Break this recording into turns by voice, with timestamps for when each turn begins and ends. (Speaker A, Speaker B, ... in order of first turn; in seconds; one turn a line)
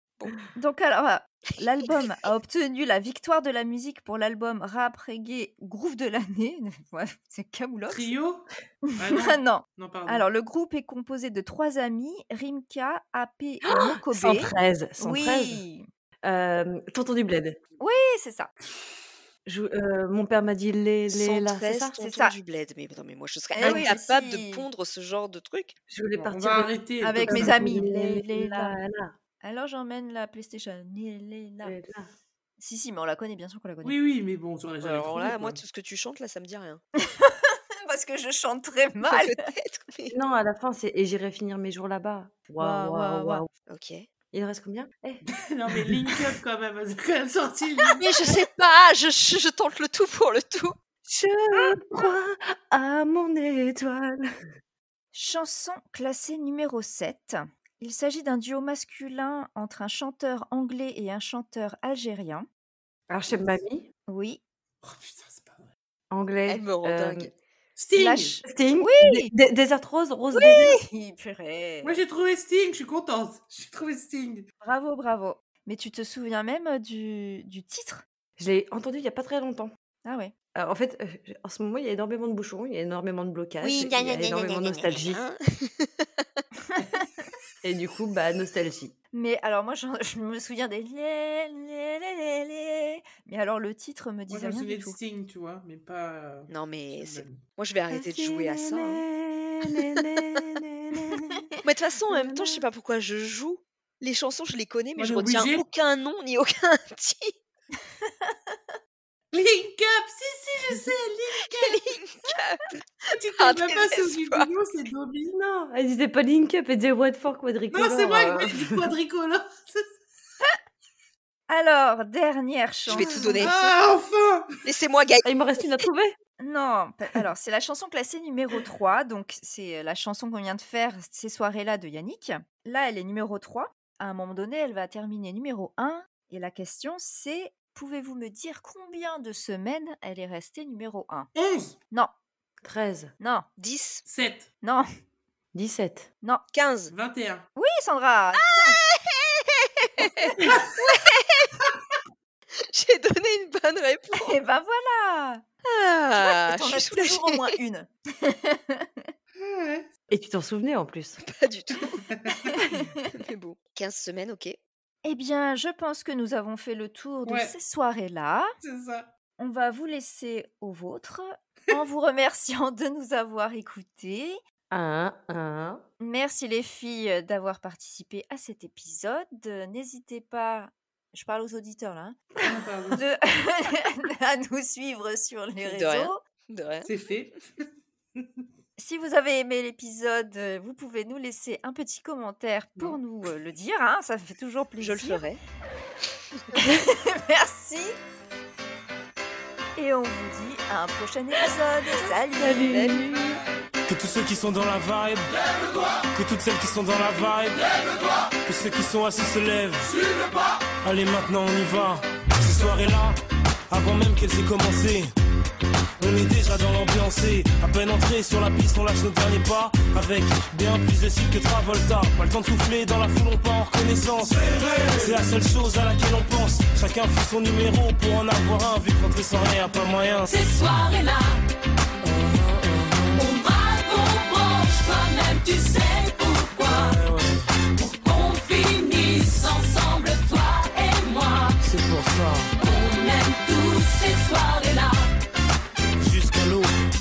Speaker A: 0.5-8.1
Speaker B: 7.9-10.3
Speaker A: 8.9-15.9
Speaker C: 13.7-15.6
Speaker C: 16.2-17.6
Speaker A: 17.8-18.5
Speaker C: 19.4-21.9
Speaker D: 21.1-25.8
Speaker A: 22.0-22.3
Speaker A: 23.5-24.6
Speaker C: 23.6-23.9
Speaker C: 25.9-29.1
Speaker B: 26.3-27.7
Speaker A: 27.0-28.8
Speaker A: 29.4-31.8
Speaker C: 31.6-32.1
Speaker A: 32.6-34.0
Speaker B: 33.8-35.6
Speaker D: 34.8-36.8
Speaker A: 37.1-39.3
Speaker D: 39.0-40.1
Speaker C: 40.1-43.5
Speaker A: 42.6-43.4
Speaker D: 43.7-44.1
Speaker C: 44.3-45.2
Speaker B: 45.3-48.0
Speaker D: 48.0-50.8
Speaker C: 51.0-54.3
Speaker A: 55.1-62.5
Speaker C: 63.1-63.9
Speaker A: 64.1-64.4
Speaker B: 64.8-65.7
Speaker C: 66.1-67.3
Speaker D: 66.5-67.3
Speaker B: 67.8-68.4
Speaker A: 67.9-69.3
Speaker C: 68.4-70.8
Speaker A: 70.3-72.0
Speaker B: 71.8-74.5
Speaker A: 74.6-78.0
Speaker C: 78.4-79.7
Speaker A: 80.0-80.3
Speaker C: 80.5-85.2
Speaker D: 83.6-86.2
Speaker C: 87.6-88.9
Speaker A: 89.1-95.0
Speaker B: 94.3-97.4
Speaker D: 96.5-99.0
Speaker C: 97.9-101.5
Speaker A: 101.1-101.5
Speaker D: 101.6-107.3
Speaker C: 102.1-102.6
Speaker B: 105.0-105.6
Speaker A: 108.0-108.6
Speaker B: 109.3-111.8
Speaker D: 111.5-112.8
Speaker B: 113.1-115.3
Speaker D: 113.3-114.5
Speaker C: 115.3-118.8
Speaker B: 117.7-119.9
Speaker A: 121.5-123.7
Speaker D: 122.9-123.5
Speaker B: 123.0-124.5
Speaker D: 124.6-125.3
Speaker C: 125.2-126.2
Speaker A: 126.4-141.3
Speaker B: 141.3-141.8
Speaker C: 142.6-143.1
Speaker A: 143.2-143.4
Speaker D: 143.6-144.0
Speaker B: 144.1-144.5
Speaker A: 144.6-144.9
Speaker C: 145.5-146.1
Speaker D: 146.5-146.9
Speaker B: 146.9-147.5
Speaker A: 147.6-148.8
Speaker D: 148.6-151.6
Speaker B: 150.4-150.7
Speaker D: 152.6-154.4
Speaker A: 154.1-155.4
Speaker D: 155.7-157.4
Speaker A: 156.2-159.1
Speaker B: 159.4-159.9
Speaker C: 160.1-161.2
Speaker D: 161.2-162.0
Speaker B: 162.1-162.5
Speaker A: 162.4-162.9
Speaker D: 163.1-164.6
Speaker A: 165.0-168.5
Speaker B: 167.2-167.5
Speaker B: 168.6-169.1
Speaker A: 169.4-174.4
Speaker C: 174.7-175.8
Speaker A: 176.0-182.2
Speaker B: 182.4-183.0
Speaker A: 182.9-186.2
Speaker D: 185.6-186.9
Speaker B: 186.8-187.3
Speaker A: 188.8-195.2
Speaker D: 194.8-195.4
Speaker A: 196.5-197.9
Speaker A: 199.8-202.7
Speaker C: 202.4-203.4
Speaker D: 202.7-203.4
Speaker E: 203.9-205.3
Speaker E: 206.1-207.7
Speaker E: 208.4-209.9
Speaker E: 210.8-213.2
Speaker E: 213.7-215.1
Speaker E: 216.0-230.3
Speaker F: 230.2-231.4
Speaker E: 232.0-233.2
Speaker F: 233.1-237.0
Speaker E: 236.6-237.4
Speaker F: 237.8-241.6
Speaker E: 241.6-242.5
Speaker F: 242.6-245.1
Speaker E: 246.0-246.7